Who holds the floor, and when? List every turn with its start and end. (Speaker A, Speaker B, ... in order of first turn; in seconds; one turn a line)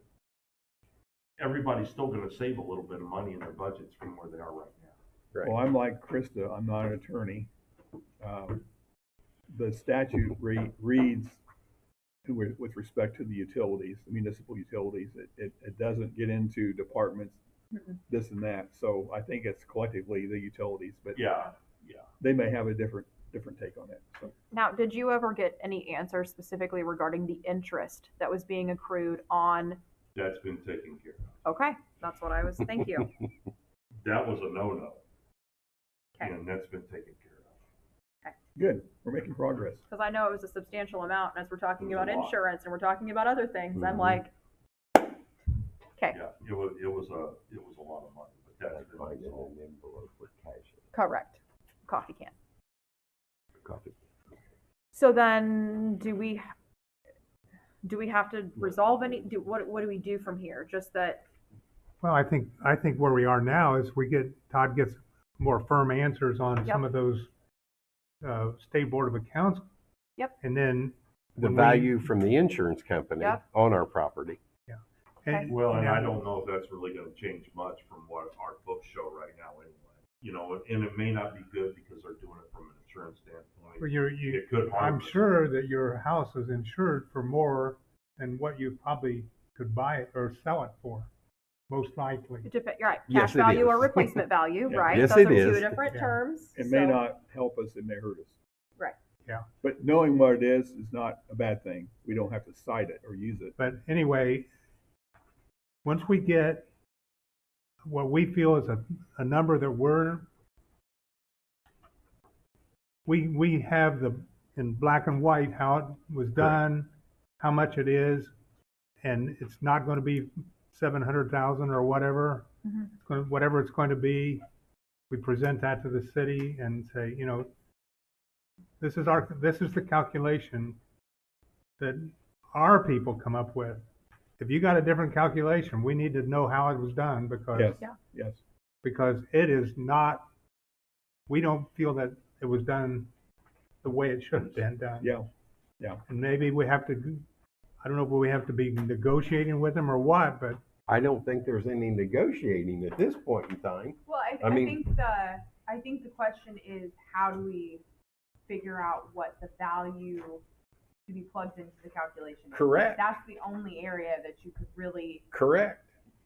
Speaker A: 1.4-5.0
Speaker B: 5.4-7.5
Speaker B: 8.2-8.6
Speaker B: 9.5-11.4
Speaker B: 12.2-17.4
Speaker B: 18.1-21.3
Speaker A: 21.1-22.1
Speaker B: 22.2-24.3
Speaker C: 24.5-29.8
Speaker A: 30.1-31.3
Speaker C: 31.4-33.1
Speaker A: 34.0-35.0
Speaker A: 36.2-37.5
Speaker B: 38.6-39.8
Speaker C: 39.9-44.3
Speaker A: 41.8-42.4
Speaker D: 43.8-44.2
Speaker A: 46.1-49.5
Speaker D: 48.7-50.9
Speaker C: 50.9-52.3
Speaker D: 53.6-54.0
Speaker C: 54.9-56.5
Speaker C: 57.8-61.2
Speaker E: 62.0-67.3
Speaker E: 68.2-69.7
Speaker E: 70.4-72.1
Speaker D: 71.4-74.4
Speaker E: 74.7-76.2
Speaker C: 75.3-75.5
Speaker A: 75.5-85.3
Speaker E: 83.8-91.1
Speaker E: 91.7-92.5
Speaker C: 92.4-97.0
Speaker D: 93.1-94.3
Speaker B: 94.7-95.2
Speaker D: 94.8-95.9
Speaker E: 95.9-96.2
Speaker B: 96.5-98.4
Speaker B: 99.6-103.6
Speaker E: 103.6-104.5
Speaker E: 105.8-106.7
Speaker E: 107.9-110.3
Speaker E: 113.1-118.3
Speaker E: 119.0-124.4
Speaker E: 125.1-127.5
Speaker E: 128.8-130.8
Speaker E: 131.8-133.8
Speaker E: 134.4-137.8
Speaker B: 137.5-138.4
Speaker E: 138.8-140.3
Speaker E: 141.3-143.1
Speaker E: 143.8-145.2
Speaker B: 145.0-145.3
Speaker E: 146.1-147.2
Speaker E: 147.8-150.6
Speaker D: 150.9-154.8
Speaker F: 154.1-157.8
Speaker F: 158.4-160.4
Speaker F: 161.1-165.2
Speaker D: 162.5-163.0
Speaker D: 165.3-165.9